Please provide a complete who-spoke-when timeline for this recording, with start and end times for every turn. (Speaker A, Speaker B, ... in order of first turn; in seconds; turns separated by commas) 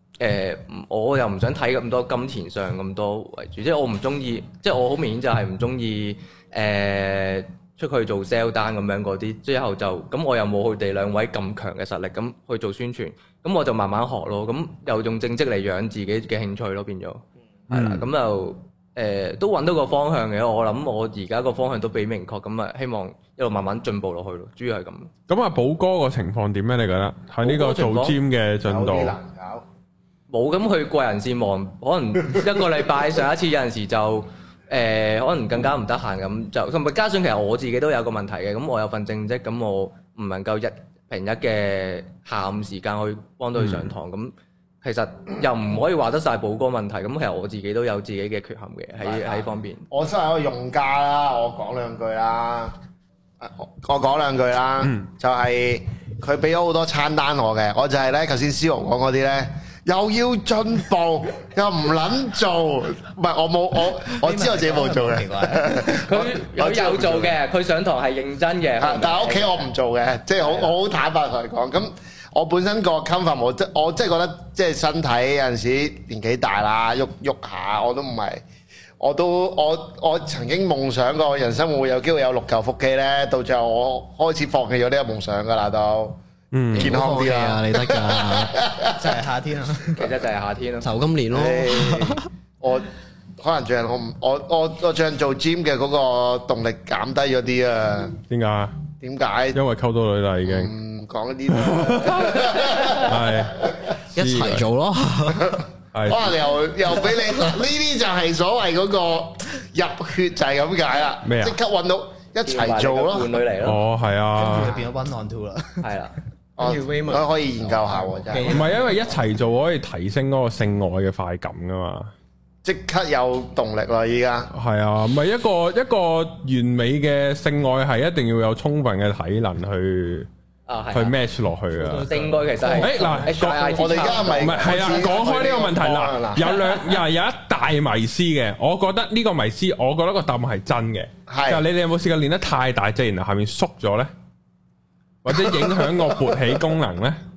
Speaker A: 0.2-25.1, Speaker B: 17.7-18.1, Speaker B: 25.3-29.2, Speaker A: 27.4-28.2, Speaker C: 28.6-29.6, Speaker A: 30.3-49.9, Speaker B: 43.5-43.9, Speaker C: 49.0-52.7, Speaker C: 53.4-67.3, Speaker B: 54.8-55.1, Speaker D: 64.2-66.0, Speaker A: 66.0-69.7, Speaker C: 68.8-78.4, Speaker D: 70.4-70.7, Speaker C: 79.0-86.2, Speaker B: 86.5-86.9, Speaker E: 86.7-88.6, Speaker C: 86.7-89.1, Speaker D: 88.9-90.0, Speaker A: 90.0-90.9, Speaker E: 90.8-92.3, Speaker C: 91.3-98.2, Speaker B: 98.3-98.8, Speaker C: 99.0-99.6, Speaker B: 99.5-100.7, Speaker C: 100.4-104.0, Speaker B: 101.5-104.7, Speaker E: 104.1-105.6, Speaker C: 105.4-113.4, Speaker B: 105.9-106.4, Speaker B: 111.2-111.6, Speaker A: 112.5-113.8, Speaker B: 113.6-114.8, Speaker D: 114.3-115.9, Speaker A: 115.8-116.1, Speaker C: 116.6-118.6, Speaker E: 116.6-118.6, Speaker D: 118.3-118.9, Speaker B: 118.4-122.1, Speaker C: 122.6-124.5, Speaker B: 124.5-130.3, Speaker A: 130.7-131.2, Speaker B: 130.9-132.1, Speaker D: 131.7-133.6, Speaker A: 132.0-135.0, Speaker B: 132.8-144.1, Speaker C: 133.8-136.5, Speaker C: 141.3-141.6, Speaker B: 145.2-147.2, Speaker C: 145.3-146.2